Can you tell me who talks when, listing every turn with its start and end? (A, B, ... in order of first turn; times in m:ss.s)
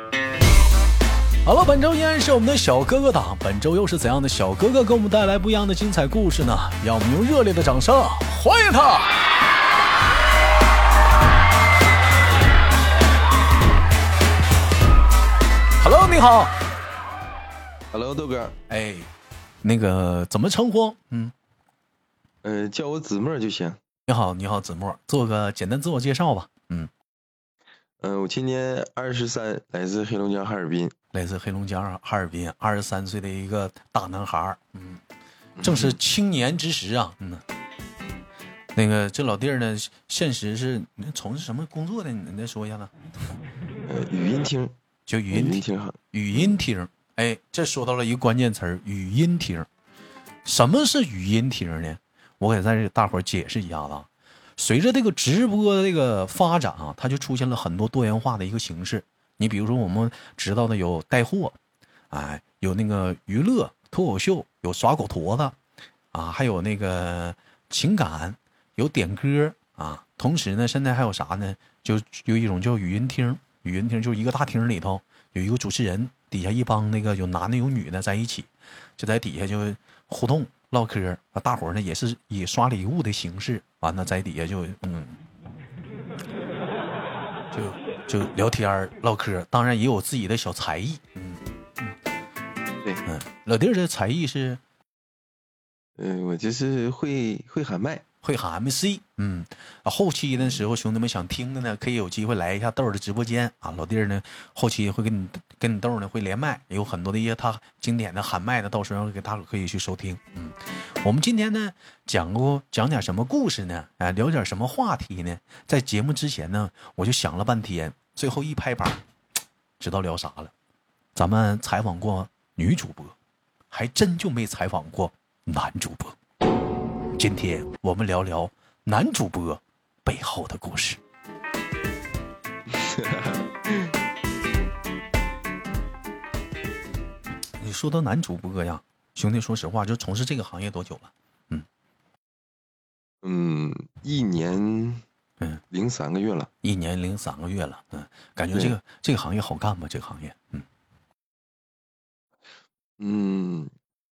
0:01.4-0:09.3 A
0:15.8-0:16.6 A
0:17.9-0:18.6 B
0:18.7-0:19.1 A
0:19.6-0:21.3 A
0:22.4-0:23.8 B
0:24.1-0:26.9 A
0:28.0-0:30.9 B
0:31.1-0:35.0 A
0:35.6-0:36.0 B
0:35.6-0:37.4 A
0:38.7-0:42.9 A
0:43.9-0:44.8 B
0:45.1-0:49.7 A
0:45.3-0:46.5 B
0:50.4-1:01.6 A
1:02.1-1:05.6 A
1:06.1-1:25.2 A
1:27.5-1:32.0 A
1:33.0-1:34.6 A
1:36.0-1:38.0 B
1:38.2-1:59.0 A
1:59.8-2:00.5 A
2:01.1-2:03.2 A
2:03.7-2:06.2 A
2:07.2-2:11.0 A
2:12.7-2:13.4 B
2:17.6-2:21.7 A
2:23.2-2:25.0 B
2:25.7-2:26.5 B
2:26.6-2:30.6 A
2:33.0-2:33.7 B